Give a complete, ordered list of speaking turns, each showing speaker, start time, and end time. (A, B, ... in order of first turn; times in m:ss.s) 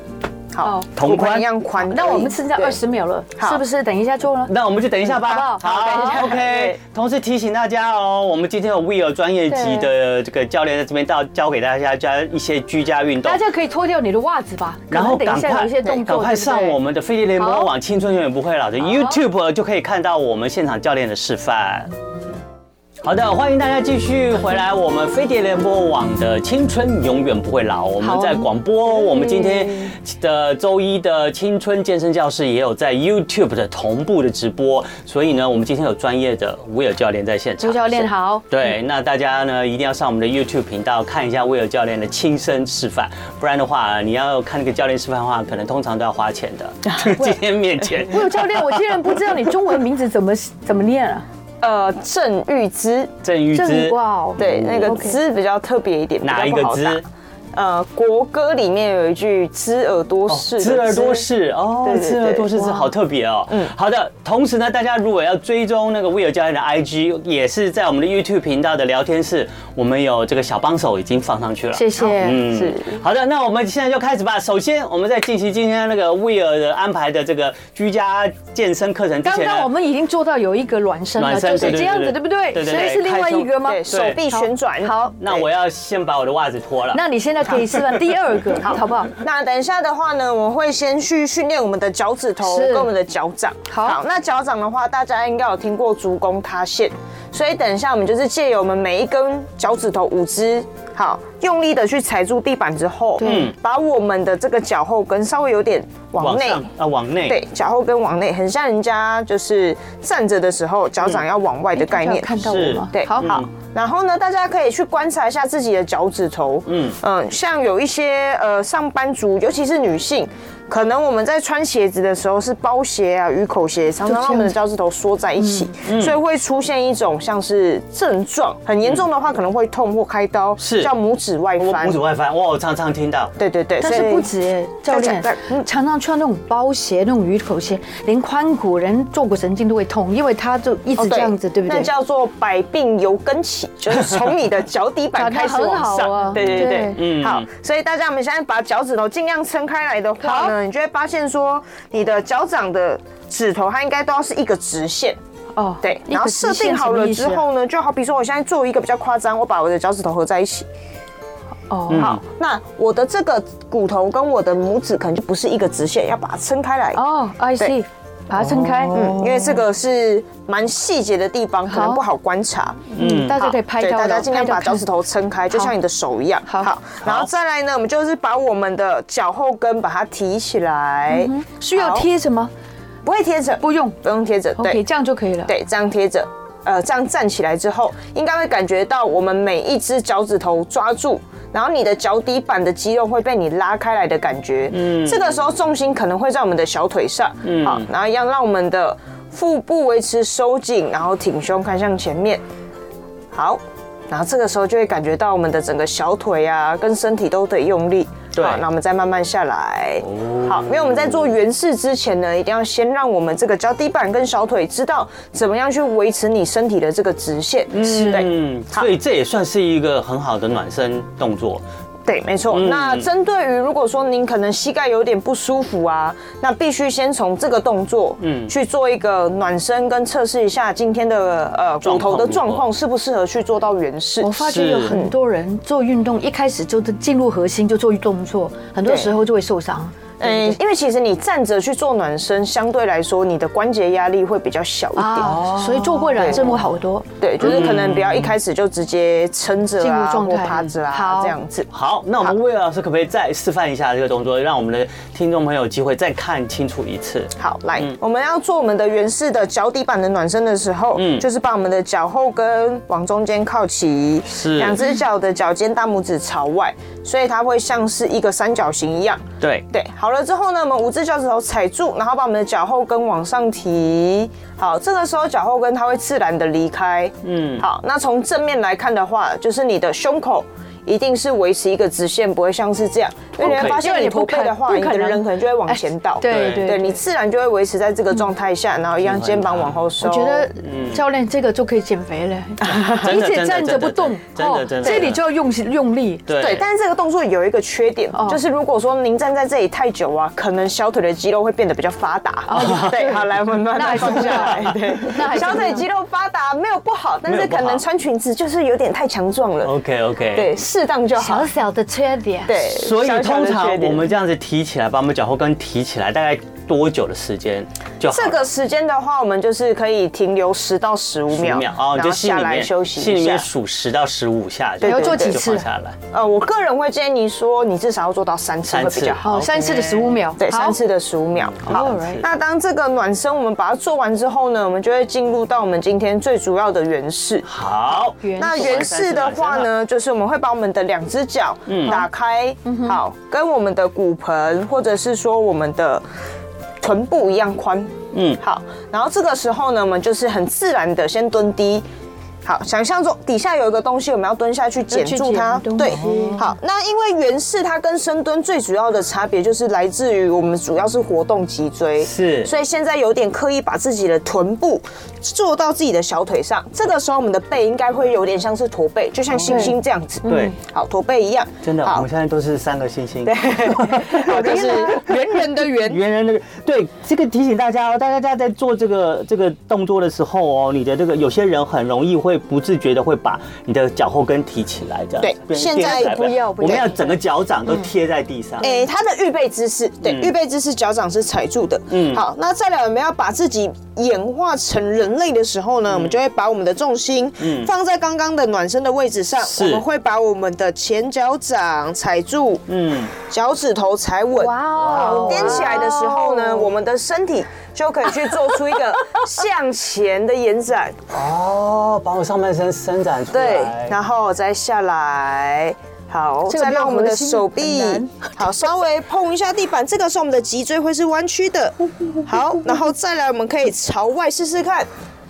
0:00.5-0:02.8 A
0:00.6-0:00.9 B
0:01.0-0:01.5 C
0:01.8-0:04.5 B
0:04.4-0:13.4 C
0:05.0-0:06.2 B
0:05.6-0:06.8 A
0:09.5-0:09.9 B
0:13.2-0:16.8 B
0:14.9-0:21.9 C
0:17.4-0:17.7 B
0:18.9-0:19.2 B
0:23.0-0:49.3 C
0:28.0-0:29.9 B
0:37.6-0:38.7 B
0:46.8-0:47.2 A
0:47.9-0:51.2 B
0:51.6-0:53.1 A
0:53.2-0:55.0 C
0:53.5-0:55.2 B
0:54.4-0:57.0 A
0:56.2-0:57.0 C
0:57.5-1:01.3 A
1:00.3-1:19.7 C
1:01.8-1:02.5 A
1:02.6-1:02.9 B
1:11.7-1:12.5 B
1:12.0-1:13.0 A
1:19.2-1:25.2 B
1:21.2-1:24.2 C
1:22.6-1:23.0 A
1:23.6-1:25.4 A
1:25.2-1:27.0 C
1:26.9-1:29.1 B
1:28.6-1:46.6 A
1:32.4-1:32.9 B
1:33.7-1:34.0 B
1:43.2-1:43.5 B
1:43.2-1:43.5 C
1:46.2-1:47.4 C
1:47.3-1:52.4 A
1:51.8-1:53.3 B
1:52.4-1:53.5 C
1:52.9-2:12.0 A
1:56.7-1:57.0 C
2:04.0-2:04.5 B
2:05.4-2:05.7 B
2:05.8-2:06.2 C
2:10.6-2:10.9 C
2:11.6-2:13.3 C
2:13.4-2:14.3 A
2:13.8-2:21.9 B
2:14.9-2:15.7 A
2:21.0-2:35.2 A
2:25.1-2:27.0 B
2:26.3-2:27.5 C
2:30.2-2:30.5 B
2:35.5-2:37.4 B
2:35.8-2:40.6 A
2:41.7-2:42.1 B
2:41.9-2:42.2 C
2:41.9-2:47.0 A
2:46.9-2:49.5 B
2:48.4-2:49.4 C
2:48.9-3:02.1 A
2:51.7-2:52.0 B
2:52.9-2:53.4 C
2:53.0-2:54.8 B
2:56.4-2:56.7 B
2:57.0-2:57.3 C
3:01.1-3:02.5 B
3:03.0-3:04.8 A
3:03.6-3:04.0 B
3:04.6-3:05.5 B
3:05.5-3:22.4 A
3:14.7-3:15.3 C
3:17.4-3:17.9 C
3:23.3-3:38.9 A
3:28.3-3:28.6 C
3:30.0-3:31.2 C
3:37.7-3:41.6 C
3:37.8-3:38.2 B
3:42.1-3:55.1 A
3:42.5-3:43.0 C
3:48.2-3:48.5 C
3:51.8-3:52.6 C
3:54.2-4:00.6 B
3:54.4-3:54.9 C
3:58.8-3:59.1 A
4:00.2-4:05.4 A
4:05.0-4:07.1 B
4:05.2-4:06.6 C
4:06.2-4:06.5 A
4:07.2-4:11.7 A
4:07.4-4:08.3 C
4:09.8-4:11.3 B
4:11.7-4:18.0 C
4:17.4-4:50.5 A
4:20.9-4:21.3 C
4:24.2-4:24.8 C
4:29.4-4:29.6 C
4:37.2-4:37.6 C
4:43.4-4:47.0 B
4:43.4-4:43.8 C
4:46.2-4:46.8 C
4:49.0-4:49.8 C
4:50.0-4:56.2 B
4:50.6-4:51.0 C
4:52.6-4:53.0 A
4:52.7-4:55.2 C
4:54.8-4:55.1 A
4:56.2-4:56.6 C
4:56.4-5:09.7 A
4:58.1-4:58.4 B
5:02.5-5:05.8 B
5:02.6-5:02.9 C
5:04.0-5:04.9 C
5:07.2-5:07.8 C
5:09.6-5:10.5 C
5:10.3-5:11.5 A
5:11.2-5:12.6 B
5:12.4-5:14.1 A
5:12.6-5:18.4 C
5:18.1-5:23.5 A
5:21.3-5:26.0 C
5:24.8-5:25.4 A
5:24.8-5:25.6 B
5:26.1-5:37.5 A
5:28.7-5:30.2 C
5:29.2-5:30.8 B
5:31.4-5:32.2 C
5:31.7-5:32.2 B
5:37.4-5:39.7 C
5:38.2-5:38.8 B
5:38.4-5:46.0 A
5:41.7-5:42.0 C
5:42.6-5:43.0 B
5:46.8-5:51.8 A
5:48.1-5:48.4 C
5:52.4-6:12.1 A
5:54.9-5:56.5 B
5:55.9-5:56.4 C
6:02.0-6:02.5 C
6:09.3-6:09.7 C
6:09.4-6:09.7 B
6:10.2-6:10.5 B
6:10.2-6:10.6 C
6:11.6-6:28.7 C
6:13.2-6:16.0 A
6:14.4-6:14.8 B
6:25.2-6:26.9 A
6:25.8-6:27.1 B
6:28.6-6:42.6 A
6:28.6-6:28.9 B
6:30.0-6:30.3 C
6:31.9-6:32.2 C
6:35.9-6:36.2 C
6:37.4-6:37.7 C
6:39.4-6:39.8 C
6:42.7-6:43.1 C
6:43.2-6:51.0 A
6:44.4-6:46.7 B
6:44.7-6:45.8 C
6:51.1-6:54.0 C
6:53.3-7:04.9 A
6:56.5-6:58.3 B